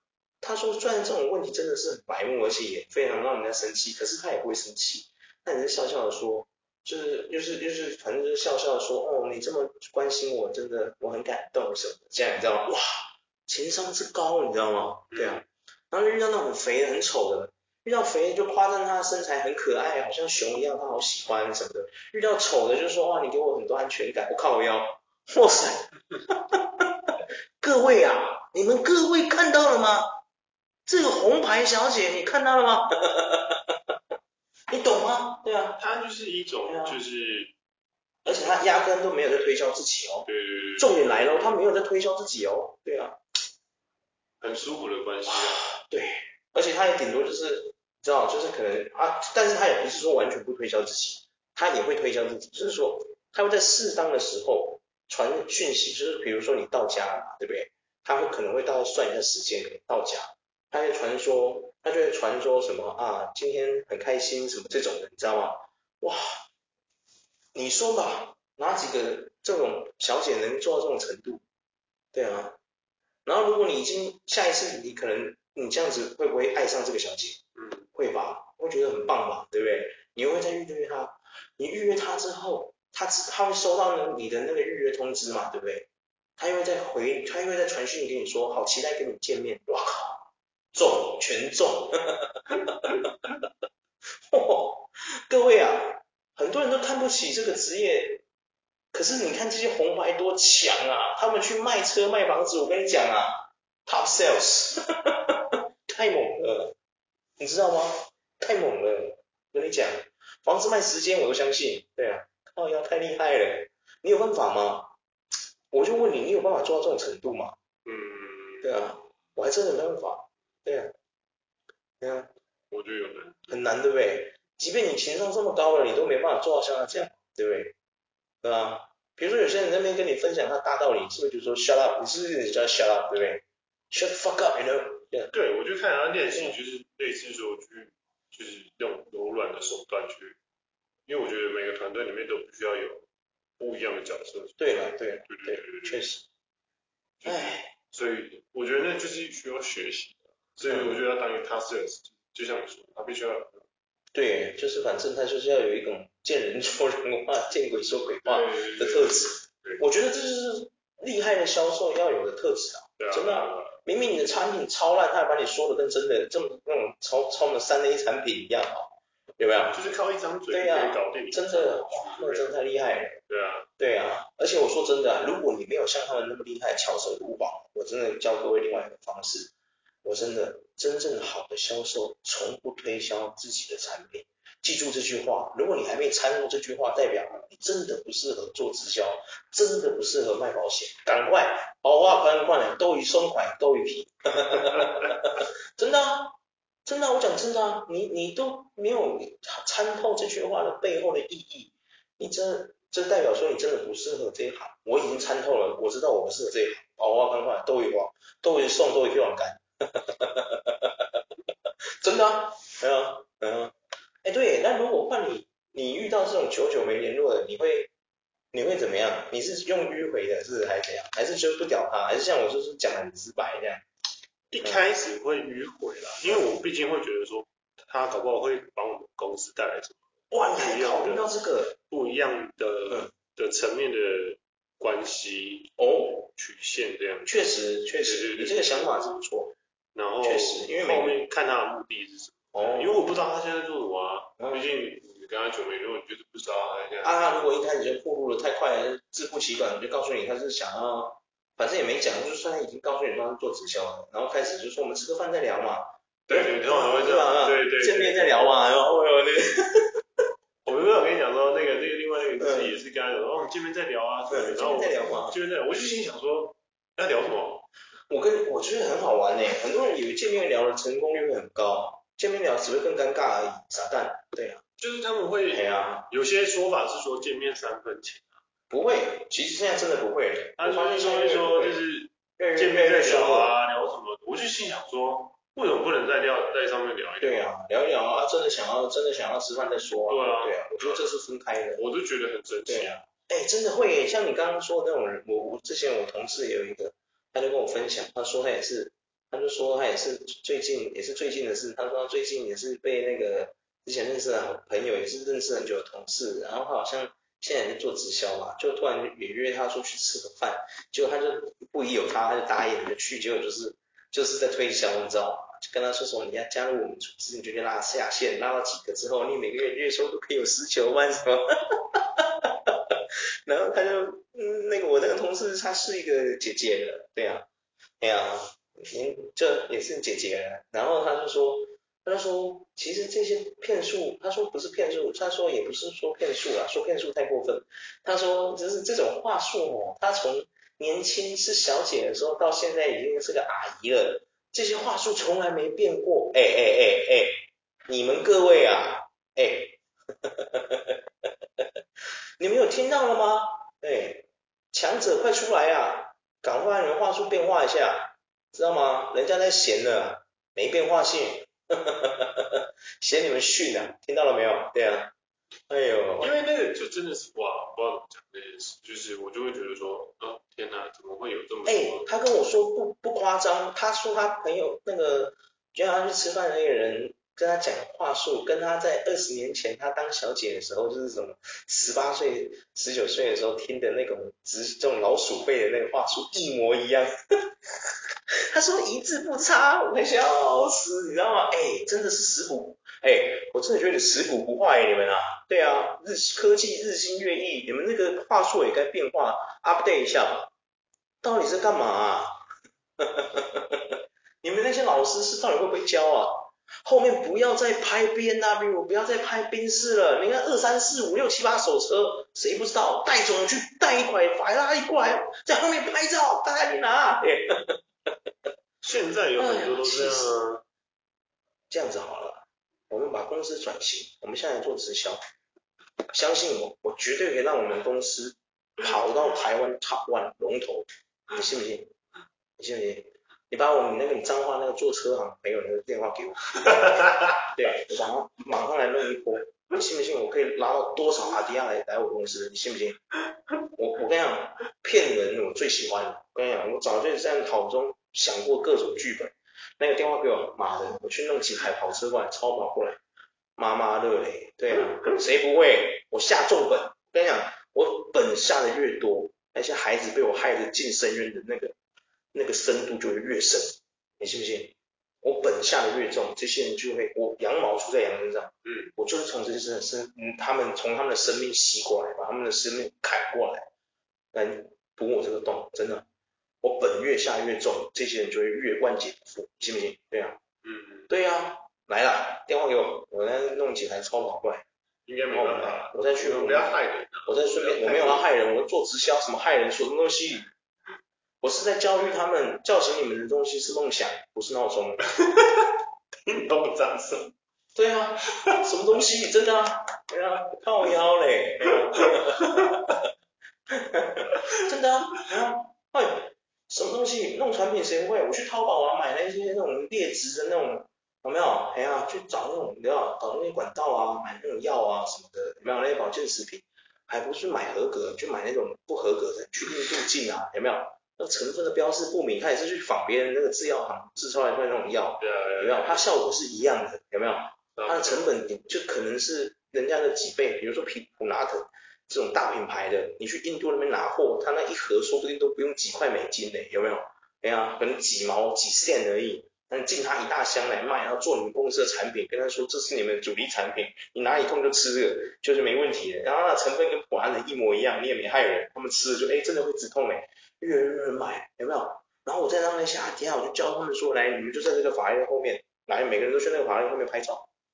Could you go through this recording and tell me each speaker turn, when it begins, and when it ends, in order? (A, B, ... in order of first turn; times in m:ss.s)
0:00.4-0:30.1 A
0:15.1-0:15.4 B
0:30.9-0:33.8 A
0:34.7-0:35.8 A
0:35.8-0:37.5 B
0:36.7-0:37.0 A
0:38.2-0:43.2 A
0:40.3-0:41.6 B
0:44.4-0:45.7 B
0:45.3-1:06.4 A
1:07.5-1:11.4 A
1:12.1-1:12.6 A
1:13.2-1:17.4 A
1:17.6-1:17.9 B
1:18.0-1:25.9 A
1:26.4-1:33.4 A
1:34.3-1:38.2 A
1:38.9-1:46.8 A
1:47.4-1:54.9 A
1:55.7-1:57.6 A
1:57.8-1:58.8 B
1:58.6-2:00.9 A
2:02.0-2:02.3 A
2:02.7-2:03.6 B
2:03.5-2:07.8 A
2:08.4-2:15.3 A
2:15.3-2:20.4 B
2:21.1-2:23.1 B
2:23.6-2:26.1 B
2:24.6-2:26.2 A
2:27.2-2:33.7 B
2:27.2-2:27.7 A
2:30.6-2:31.0 A
2:34.1-2:49.8 A
2:38.2-2:39.8 B
2:43.0-2:43.8 B
2:49.7-2:52.6 B
2:50.5-2:53.2 A
2:53.3-2:53.7 B
2:53.8-2:59.5 A
3:00.0-3:31.2 A
3:32.0-3:37.9 A
3:38.5-3:43.8 A
3:44.5-3:51.3 B
3:44.6-3:44.9 A
3:46.3-3:46.6 A
3:50.3-3:51.8 A
3:51.9-3:55.7 B
3:55.8-3:56.3 A
3:56.4-3:57.4 B
3:57.3-3:59.6 A
3:58.0-3:59.2 B
3:59.9-4:07.2 B
4:00.2-4:01.2 A
4:02.5-4:03.0 A
4:04.4-4:04.6 A
4:07.0-4:20.0 A
4:16.3-4:18.6 B
4:20.6-4:27.7 B
4:22.4-4:22.8 A
4:24.3-4:25.4 A
4:28.1-4:34.6 A
4:34.8-4:38.4 B
4:35.5-4:36.1 A
4:38.7-4:41.8 A
4:40.6-4:47.6 B
4:42.4-4:43.5 A
4:47.2-4:51.8 A
4:50.1-4:51.1 B
4:51.8-4:53.0 B
4:52.7-5:27.5 A
5:28.0-5:51.0 A
5:52.4-6:05.1 A
6:05.7-6:06.3 A
6:06.2-6:12.1 B
6:11.7-6:27.6 A
6:28.5-6:40.5 A
6:41.2-6:42.4 A
6:43.0-6:57.8 A
6:58.8-7:00.6 B
6:59.4-7:00.4 A
7:01.7-7:05.2 A
7:06.1-7:11.9 A
7:12.6-7:23.0 A
7:16.6-7:17.5 B
7:23.8-7:33.0 A
7:33.6-7:41.8 A
7:42.3-7:53.7 A
7:48.6-7:48.9 B
7:54.3-7:56.0 A
7:56.6-8:00.4 A
8:00.6-8:01.1 B
8:01.1-8:04.6 A
8:05.1-8:08.3 B
8:05.3-8:06.7 A
8:07.2-8:10.5 A
8:11.4-8:15.0 A
8:15.2-8:15.7 B
8:16.2-8:17.3 B
8:17.8-8:22.8 A
8:21.7-8:22.8 B
8:23.7-9:17.5 A
8:45.2-8:46.1 B
8:47.8-8:48.3 B